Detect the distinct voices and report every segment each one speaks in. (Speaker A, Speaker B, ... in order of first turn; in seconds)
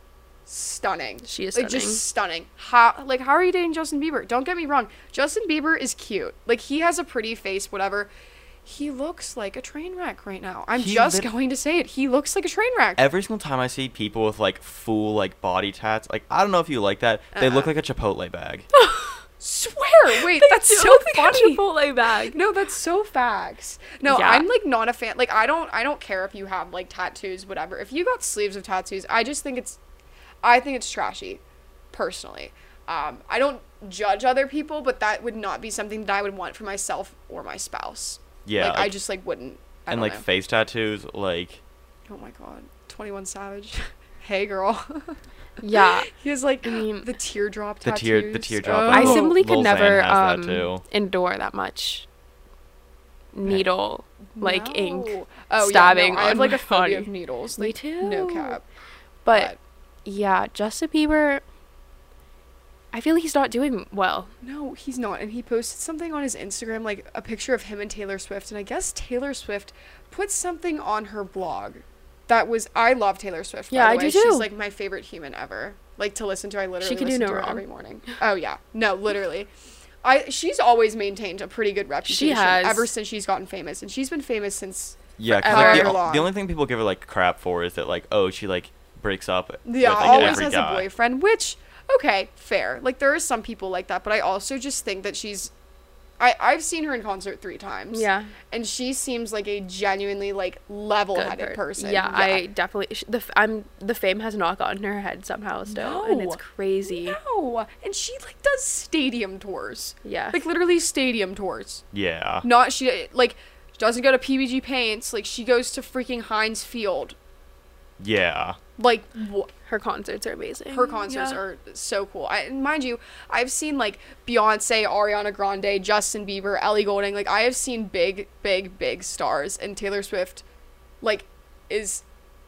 Speaker A: 0.5-8.1, 8.7-13.1, 17.3-17.7, 19.4-21.6, 22.3-29.8, 30.4-40.2, 42.1-45.2, 46.1-49.4, 54.4-58.6, 59.3-59.6, 64.4-79.5, 80.0-86.3, 89.7-95.5, 96.2-102.4, 105.7-111.8, 112.4-117.2, 118.8-119.5, 120.7-130.4, 131.0-132.0
Speaker B: 1.2-2.0, 18.7-19.2, 20.2-22.4, 24.1-24.5, 45.6-46.1, 46.6-47.1, 48.9-52.1, 53.3-58.6, 59.2-59.5, 60.0-61.4, 62.9-64.3, 73.7-74.5, 76.8-77.6, 82.1-82.9, 85.4-86.0, 90.0-90.5, 97.9-98.3, 101.2-107.2, 110.0-110.4, 119.7-121.4
Speaker C: 10.8-11.3, 13.0-18.7, 38.5-38.9, 39.9-41.6, 47.8-50.8, 85.2-90.9, 111.9-112.5, 118.0-118.6